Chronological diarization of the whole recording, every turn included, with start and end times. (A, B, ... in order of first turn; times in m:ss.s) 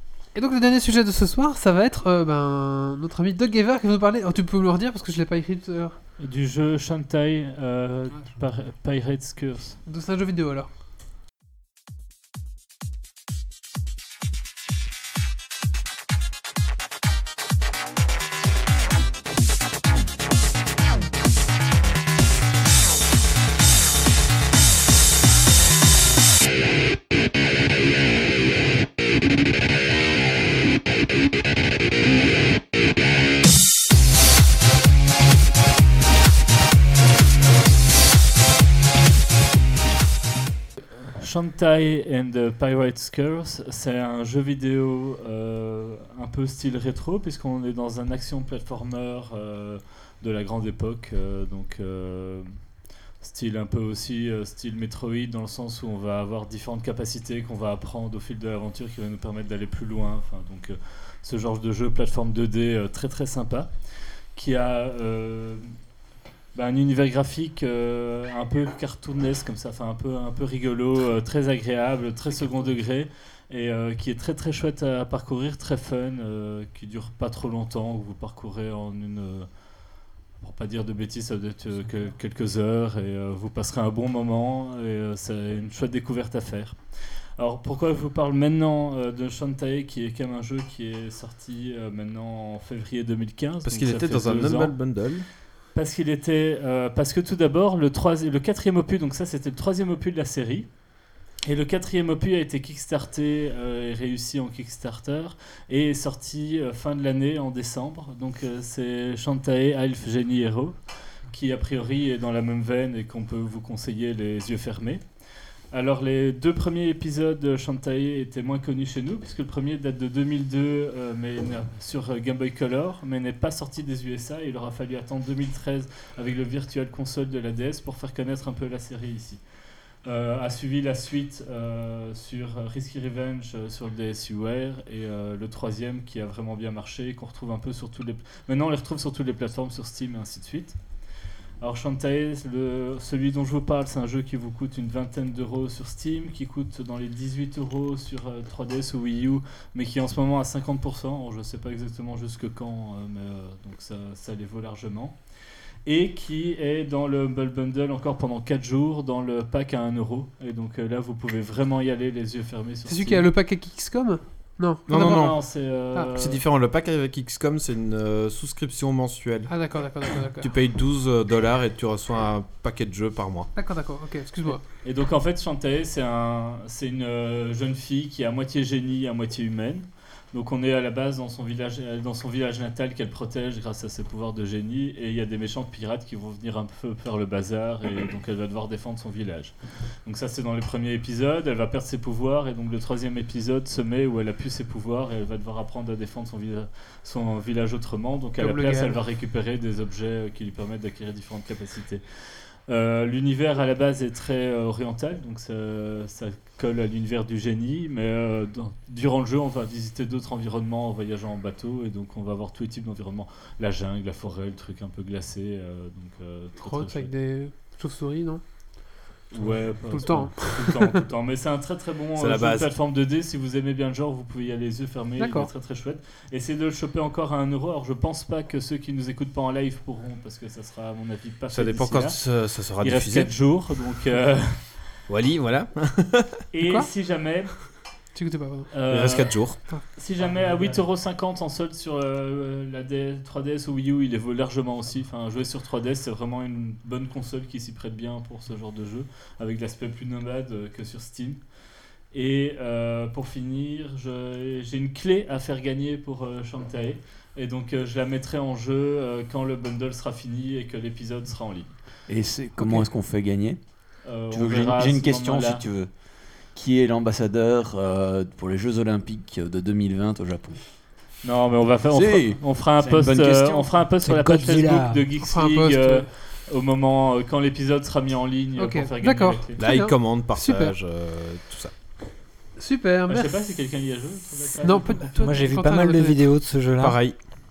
0:00.3-0:06.0 A
0:06.2-0:09.8 B
0:09.8-0:10.7 A
0:41.1-0:52.6 B
0:53.2-1:03.7 B
1:04.3-1:05.7 B
1:06.5-1:19.5 B
1:20.4-1:26.8 B
1:27.4-1:34.8 B
1:33.6-1:35.2 C
1:35.7-1:40.7 B
1:41.4-1:55.0 B
1:55.7-2:09.4 B
2:10.0-2:20.8 B
2:21.6-2:35.2 B
2:35.8-2:43.3 B
2:42.9-2:45.3 A
2:44.9-2:45.4 C
2:45.0-2:46.4 B
2:46.1-2:49.6 C
2:49.5-2:50.5 A
2:50.4-2:53.5 C
2:53.5-2:54.6 A
2:54.8-3:37.1 B
3:18.4-3:19.0 A
3:36.6-3:38.4 A
3:39.3-3:52.2 B
3:39.9-3:40.9 A
3:42.2-3:42.7 C
3:45.2-3:45.5 A
3:51.5-3:53.3 C
3:52.8-3:54.7 B
3:55.1-3:56.4 C
3:56.5-3:57.5 B
3:56.6-3:56.9 A
3:58.1-3:58.7 A
3:58.7-4:11.4 B
3:58.9-3:59.6 C
4:12.1-4:21.8 B
4:22.1-4:23.6 D
4:24.0-4:25.6 B
4:24.3-4:25.9 D
4:26.4-4:30.6 D
4:31.2-4:39.6 B
4:31.9-4:33.8 D
4:34.0-4:35.0 E
4:35.2-4:36.1 A
4:38.6-4:40.7 A
4:39.6-4:41.7 C
4:42.6-4:43.3 A
4:43.1-4:45.1 B
4:44.6-4:46.2 A
4:45.1-4:47.0 E
4:46.8-4:47.2 C